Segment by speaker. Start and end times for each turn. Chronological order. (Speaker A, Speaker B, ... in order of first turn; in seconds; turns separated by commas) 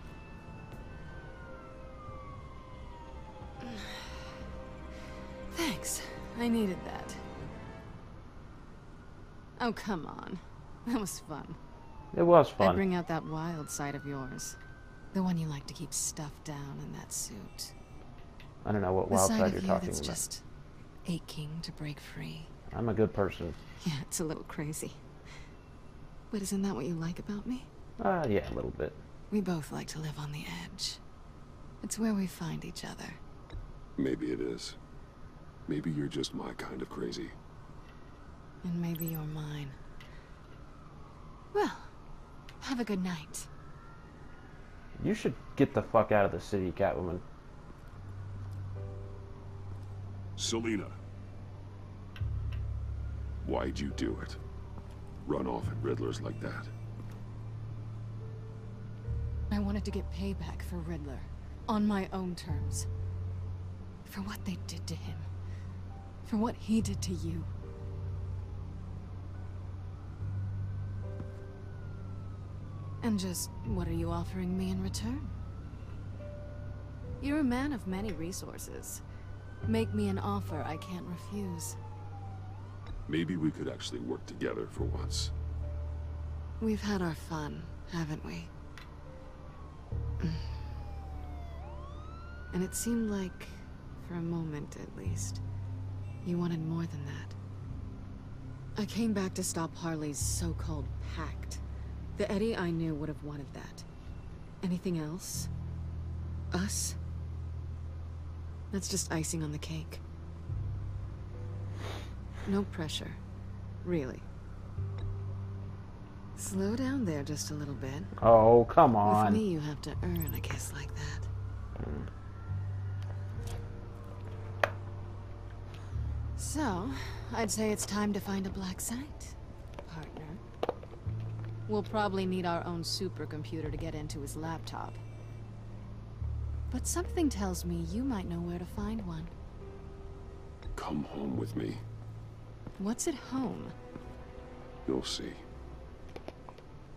Speaker A: 3.6-4.4, Speaker A: 5.5-7.2, Speaker A: 9.6-11.6, Speaker B: 12.1-12.8, Speaker A: 12.6-14.6, Speaker A: 15.1-17.7, Speaker B: 18.6-20.2, Speaker A: 19.1-20.4, Speaker A: 21.1-22.5, Speaker B: 22.7-23.6, Speaker A: 23.8-25.0, Speaker A: 26.3-27.7, Speaker B: 28.0-29.0, Speaker A: 29.3-31.0, Speaker A: 31.8-33.2, Speaker C: 34.0-34.8, Speaker C: 35.7-37.4, Speaker A: 38.6-39.8, Speaker A: 41.5-41.9, Speaker A: 42.6-43.5, Speaker B: 45.0-47.2, Speaker C: 50.4-51.0, Speaker C: 53.4-54.4, Speaker C: 55.2-56.7, Speaker A: 59.5-62.9, Speaker A: 64.0-65.3, Speaker A: 66.3-67.5, Speaker A: 73.0-75.3, Speaker A: 77.2-79.0, Speaker A: 79.7-81.8, Speaker C: 83.1-85.3, Speaker A: 86.6-88.5, Speaker A: 90.2-90.6, Speaker A: 92.5-95.4, Speaker A: 96.2-97.4, Speaker A: 98.8-101.6, Speaker A: 102.2-103.9, Speaker A: 104.6-105.5, Speaker A: 106.5-107.0, Speaker A: 108.7-110.0, Speaker A: 112.5-113.2, Speaker A: 113.8-114.3, Speaker A: 116.4-118.1, Speaker B: 118.2-119.4, Speaker A: 119.0-121.3, Speaker A: 126.4-130.4, Speaker A: 131.7-135.0, Speaker A: 136.7-139.3, Speaker C: 140.8-141.8, Speaker A: 142.8-143.7, Speaker C: 144.9-145.4